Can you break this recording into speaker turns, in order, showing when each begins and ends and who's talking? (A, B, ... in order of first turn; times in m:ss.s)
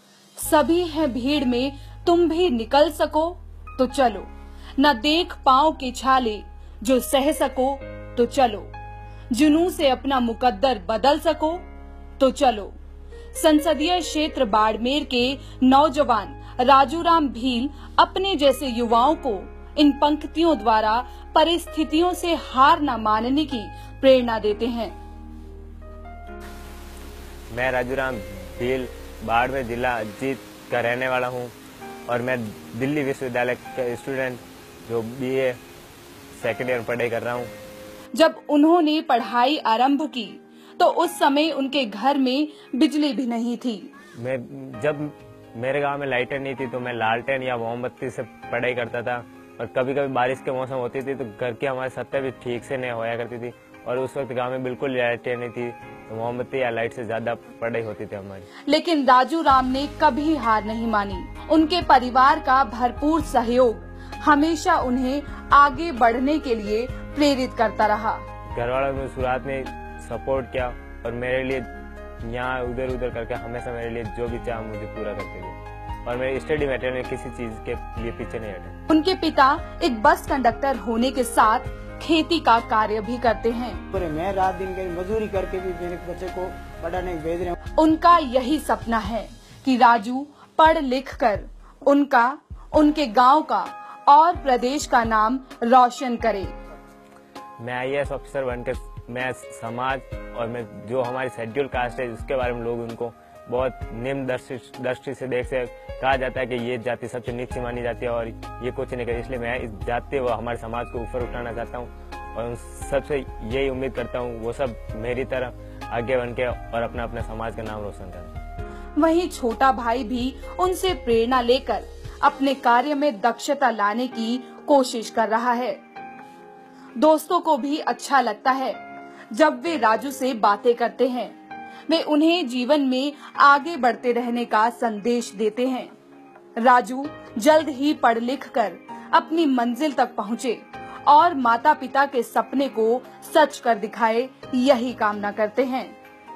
0:00.4-0:08.7 A
0:09.3-0:11.6 A
0:12.2-0:12.7 A
0:13.4-0:24.9 A
0:27.5-0:31.5 B
0:32.1-0:35.6 B
0:36.4-0:37.5 B
0:38.1-0:43.9 A
0:44.2-0:58.5 B
0:58.7-1:08.2 A
1:08.5-1:11.7 B
1:12.2-1:18.8 B
1:18.9-1:23.8 A
1:23.9-1:27.6 C
1:27.8-1:36.5 A
1:37.6-1:58.3 B
1:59.0-2:05.8 A
2:07.0-2:08.8 A
2:09.3-2:11.3 A
2:11.9-2:15.9 A
2:16.6-2:25.9 A